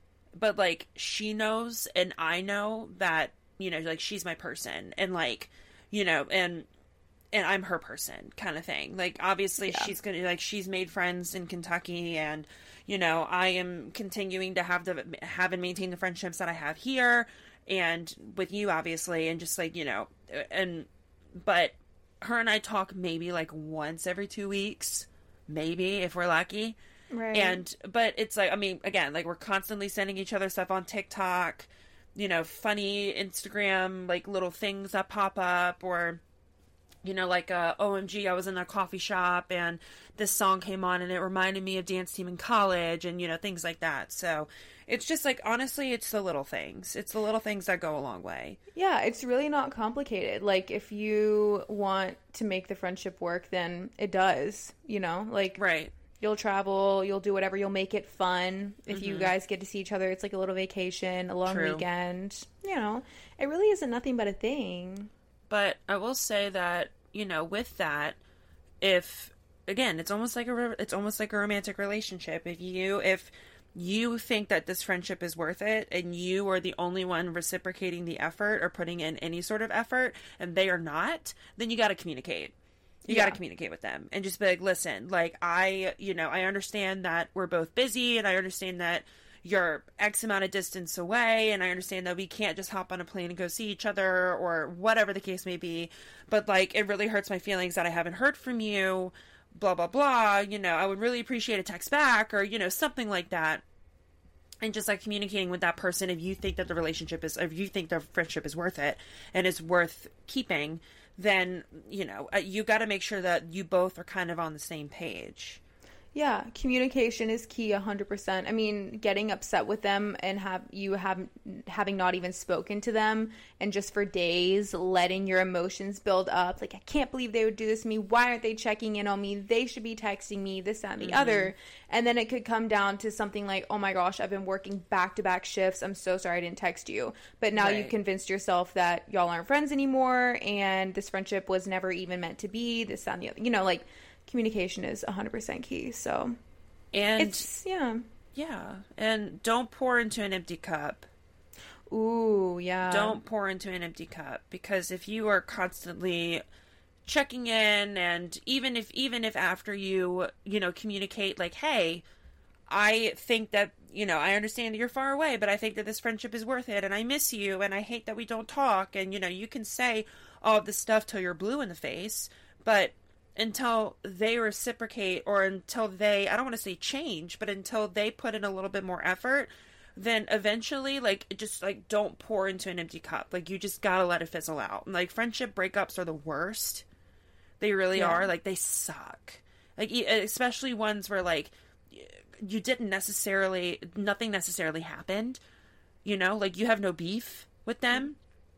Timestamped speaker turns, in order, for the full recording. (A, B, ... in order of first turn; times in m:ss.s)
0:00.3-0:06.7 A
0:07.3-0:26.8 A
0:09.6-0:09.9 B
0:27.1-0:27.6 B
0:27.3-0:36.2 A
0:37.0-0:48.6 A
0:48.7-0:55.6 B
0:55.6-0:55.9 A
0:56.2-1:05.1 B
0:58.9-0:59.3 A
1:01.5-1:01.8 A
1:05.5-1:08.2 A
1:08.8-1:22.5 A
1:23.0-1:43.6 A
1:23.1-1:23.4 B
1:44.6-1:55.6 A
1:56.1-2:26.3 B
2:11.0-2:11.5 A
2:17.5-2:17.9 A
2:26.9-2:27.4 A
2:27.2-2:28.0 B
2:28.3-2:31.1 A
2:31.9-2:33.2 B
2:32.9-2:36.4 A
2:37.0-2:42.0 A
2:42.7-3:06.8 A
3:07.6-3:15.4 A
3:07.9-3:08.3 B
3:16.0-3:18.2 A